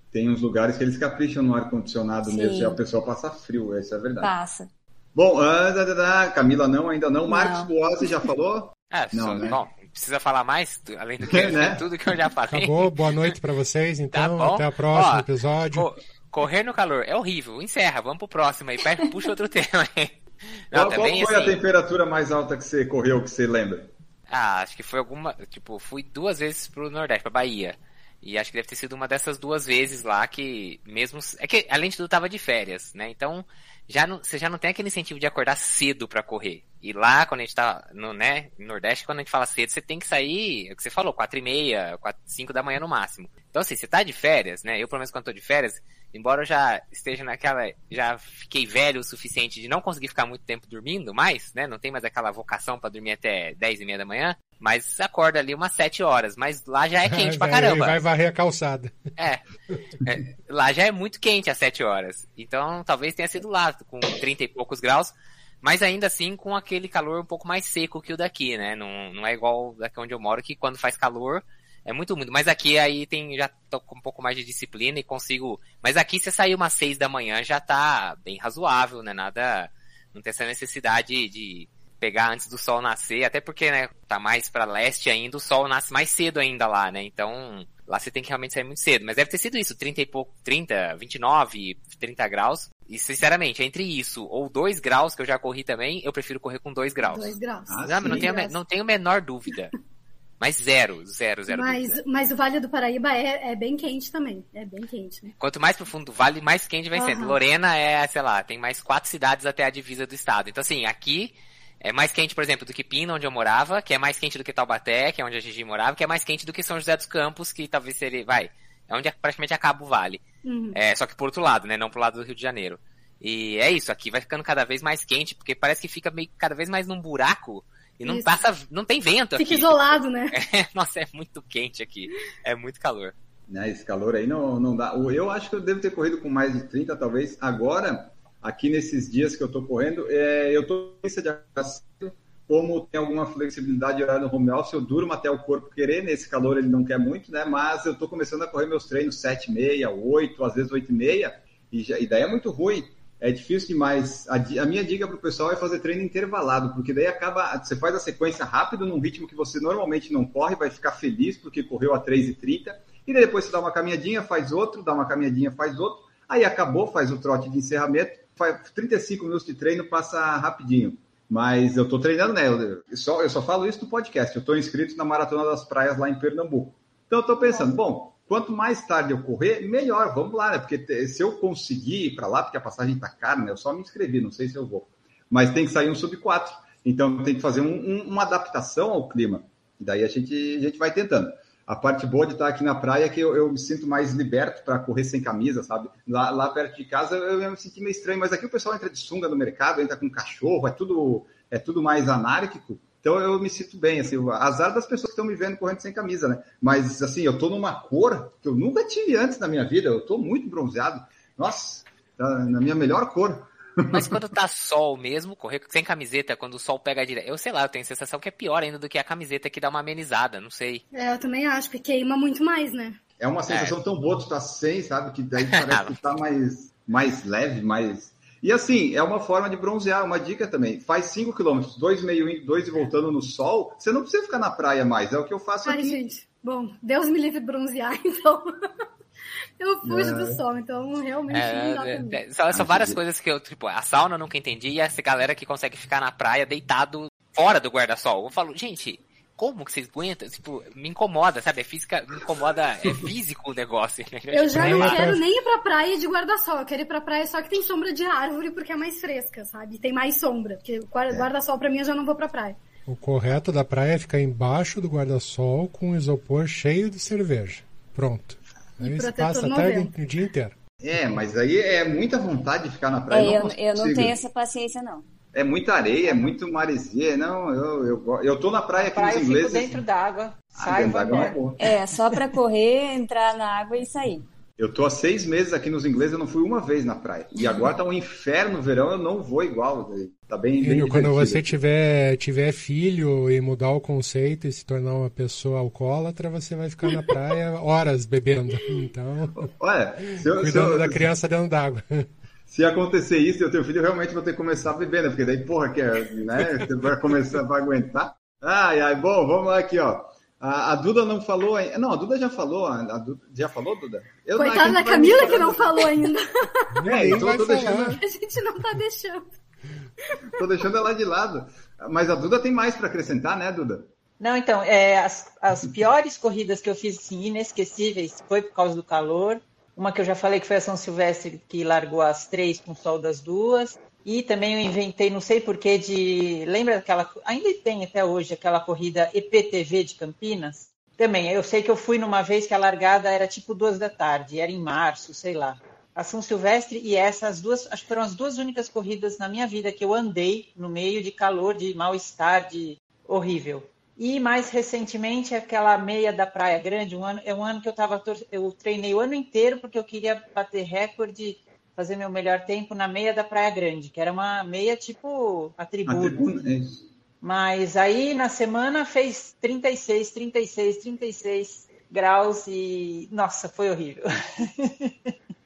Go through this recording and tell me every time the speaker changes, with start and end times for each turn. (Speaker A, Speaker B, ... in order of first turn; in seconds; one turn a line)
Speaker A: 0.1-4.3
Speaker B: 2.2-2.8
Speaker B: 4.2-4.7
Speaker A: 5.1-9.6
Speaker B: 7.3-7.7
Speaker C: 8.9-13.3
Speaker A: 11.2-11.8
Speaker D: 12.5-15.9
Speaker C: 14.1-20.1
Speaker C: 20.7-21.6
Speaker A: 20.7-23.9
Speaker C: 24.3-58.0
Speaker D: 57.0-58.9
Speaker C: 60.0-97.3
Speaker E: 97.0-98.5
Speaker A: 97.7-98.3
Speaker C: 97.8-99.7
Speaker C: 100.4-102.0
Speaker E: 101.5-105.3
Speaker C: 105.4-120.2
Speaker E: 106.9-107.4
Speaker E: 120.4-120.8
Speaker C: 120.7-133.1
Speaker E: 129.4-130.3
Speaker A: 133.5-214.2
Speaker C: 213.9-220.8
Speaker E: 220.9-223.0
Speaker A: 223.2-236.0
Speaker C: 223.5-223.8
Speaker C: 225.5-225.9
Speaker E: 235.7-238.5
Speaker E: 239.6-242.2
Speaker A: 239.8-240.4
Speaker C: 241.3-255.1
Speaker A: 242.5-243.0
Speaker E: 254.3-262.6
Speaker D: 254.5-255.2
Speaker D: 262.9-270.5
Speaker E: 268.8-269.9
Speaker A: 270.8-274.1
Speaker B: 273.1-275.0
Speaker A: 275.3-279.8
Speaker F: 278.8-281.4
Speaker A: 280.5-281.6
Speaker B: 281.6-284.2
Speaker A: 284.6-291.5
Speaker D: 290.6-299.4
Speaker A: 299.3-301.1
Speaker D: 300.1-302.1
Speaker A: 302.5-315.9
Speaker E: 314.3-316.9
Speaker D: 316.8-318.0
Speaker A: 316.8-318.0
Speaker E: 318.0-319.3
Speaker A: 320.3-323.9
Speaker F: 324.2-366.3
Speaker A: 365.9-366.8
Speaker F: 367.2-375.1